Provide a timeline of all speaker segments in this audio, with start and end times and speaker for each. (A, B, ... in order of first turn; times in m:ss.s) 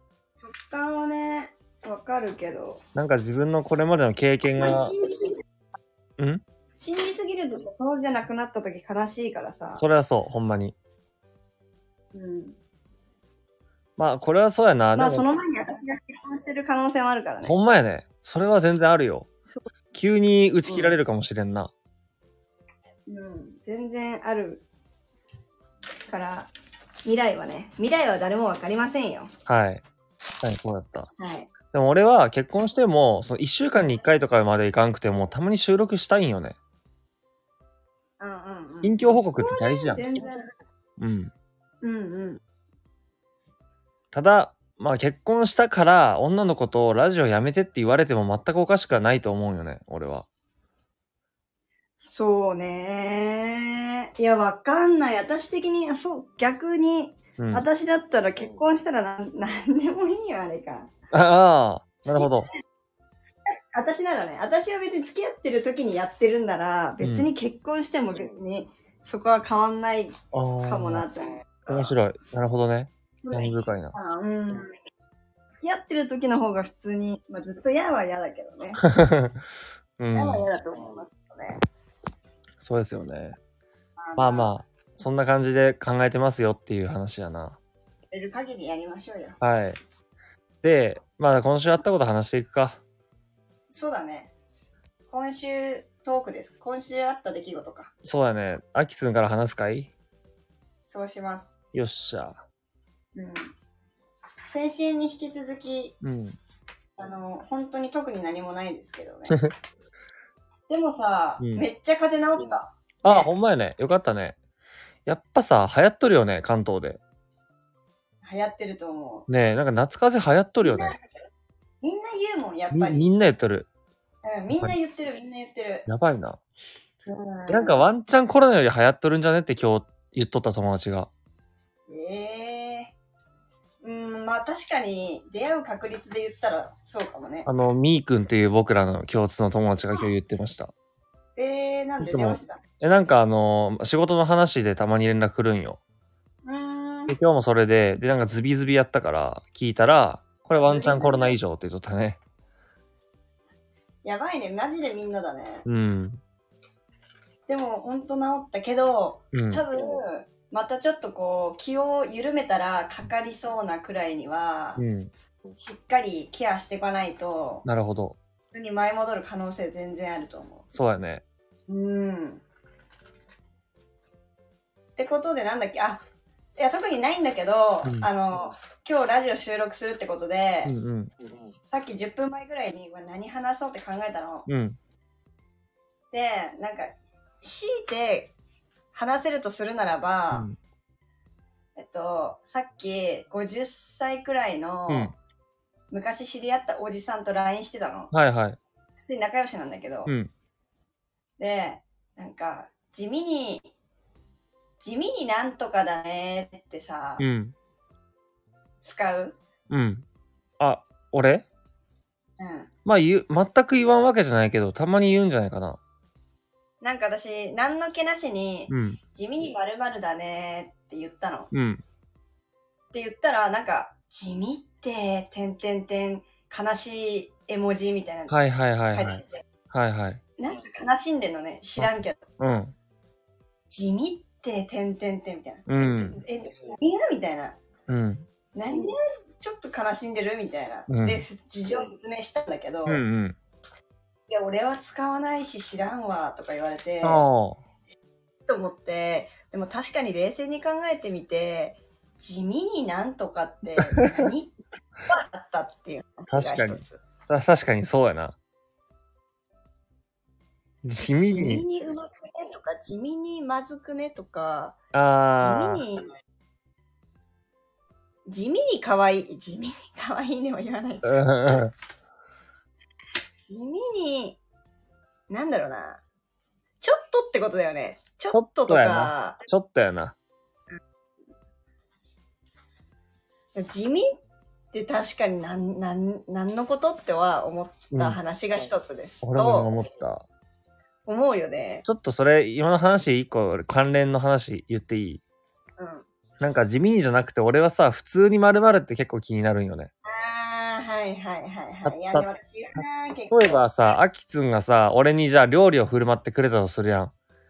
0:00.4-0:02.8 A
0:02.9-0:04.9 B
0:04.6-0:05.4 A
0:06.2-0:06.4 B
0:06.8-0:09.8 A
0:09.8-0:10.8 B
0:12.1-0:12.6 A
0:14.0-0:15.3 B
0:14.9-0:17.6 A
0:17.4-0:19.3 B
0:19.9-0:21.7 B
0:20.6-0:21.0 A
0:23.1-0:24.6 A
0:26.1-0:26.5 A
0:27.0-0:29.3 A
0:29.5-0:29.8 B
0:30.4-0:31.1 B
0:31.2-0:31.5 A
0:31.7-0:36.6 B
0:38.2-0:40.5 A
0:38.8-0:40.0 B
0:41.0-0:41.3 B
0:41.8-0:42.4 A
0:44.1-0:50.2 B
0:52.0-1:00.9 A
0:57.4-0:57.6 B
1:01.1-1:02.5 B
1:03.4-1:12.0 A
1:07.0-1:07.3 B
1:10.3-1:11.0 B
1:11.7-1:13.9 B
1:13.2-1:14.7 A
1:15.5-1:18.8 A
1:18.8-1:19.4 B
1:20.0-1:20.5 B
1:20.1-1:21.6 A
1:22.6-1:23.4 B
1:24.0-1:24.5 A
1:24.2-1:27.6 B
1:28.1-1:29.4 A
1:29.4-1:29.8 B
1:30.6-1:32.8 B
1:33.7-1:34.3 A
1:35.1-1:37.9 A
1:38.0-1:39.9 B
1:40.8-1:41.5 A
1:41.7-1:42.4 B
1:43.1-1:43.4 A
1:44.4-1:46.0 A
1:46.0-1:46.4 B
1:47.0-1:49.4 A
1:50.7-1:53.3 A
1:51.4-1:51.6 B
1:53.0-1:54.4 B
1:55.0-1:57.0 B
1:58.2-1:59.3 A
1:59.3-2:00.9 B
2:00.6-2:01.0 A
2:01.8-2:03.1 A
2:02.7-2:03.7 B
2:04.2-2:05.8 A
2:05.9-2:06.4 B
2:07.1-2:07.9 A
2:07.5-2:11.1 B
2:11.9-2:12.9 A
2:13.8-2:17.5 A
2:17.4-2:20.7 B
2:21.4-2:22.6 A
2:22.0-2:25.8 B
2:26.4-2:27.2 A
2:27.1-2:32.2 B
2:30.6-2:31.4 A
2:34.0-2:35.6 A
2:35.6-2:36.2 B
2:37.5-2:44.8 A
2:39.3-2:39.6 B
2:44.8-2:45.1 B
2:45.6-2:47.6 A
2:47.6-2:48.2 B
2:48.5-2:50.6 A
2:50.7-2:51.2 B
2:51.7-2:52.4 A
2:55.0-2:56.0 A
2:56.6-3:00.7 A
3:00.6-3:01.1 B
3:01.7-3:04.5 A
3:04.5-3:04.8 B
3:06.1-3:08.3 A
3:08.9-3:10.5 A
3:11.8-3:15.1 A
3:14.9-3:15.1 B
3:15.9-3:18.1 A
3:18.1-3:18.6 B
3:19.0-3:20.1 A
3:21.4-3:23.7 A
3:24.8-3:27.2 A
3:27.2-3:27.5 B
3:28.8-3:29.4 A
3:29.7-3:30.0 B
3:30.6-3:31.4 B
3:32.4-3:32.7 A
3:32.8-3:35.8 B
3:36.8-3:41.5 A
3:38.7-3:39.0 B
3:41.5-3:41.8 B
3:42.9-3:48.4 A
3:48.3-3:50.2 B
3:48.9-3:49.4 A
3:50.4-3:52.2 A
3:51.8-3:52.7 B
3:53.7-3:57.6 A
3:55.7-3:56.2 B
3:57.9-3:58.3 B
3:58.5-4:03.0 A
4:00.9-4:01.2 B
4:02.8-4:03.4 B
4:04.3-4:07.2 A
4:07.0-4:07.6 B
4:08.5-4:14.5 A
4:14.0-4:14.2 B
4:15.1-4:17.0 A
4:16.3-4:18.4 B
4:20.8-4:21.6 B
4:21.2-4:24.8 A
4:24.9-4:25.8 B
4:25.4-4:26.0 A
4:28.2-4:31.3 A
4:31.0-4:31.7 B
4:33.4-4:34.4 A
4:35.3-4:36.0 A
4:36.8-4:39.4 A
4:38.3-4:40.1 B
4:43.6-4:44.1 A
4:44.7-4:49.7 A
4:47.9-4:48.2 B
4:49.2-4:50.2 B
4:51.0-4:51.8 A
4:51.8-4:55.2 B
4:55.8-4:56.0 A
4:56.4-4:59.9 B
5:00.0-5:03.6 A
5:01.8-5:07.1 B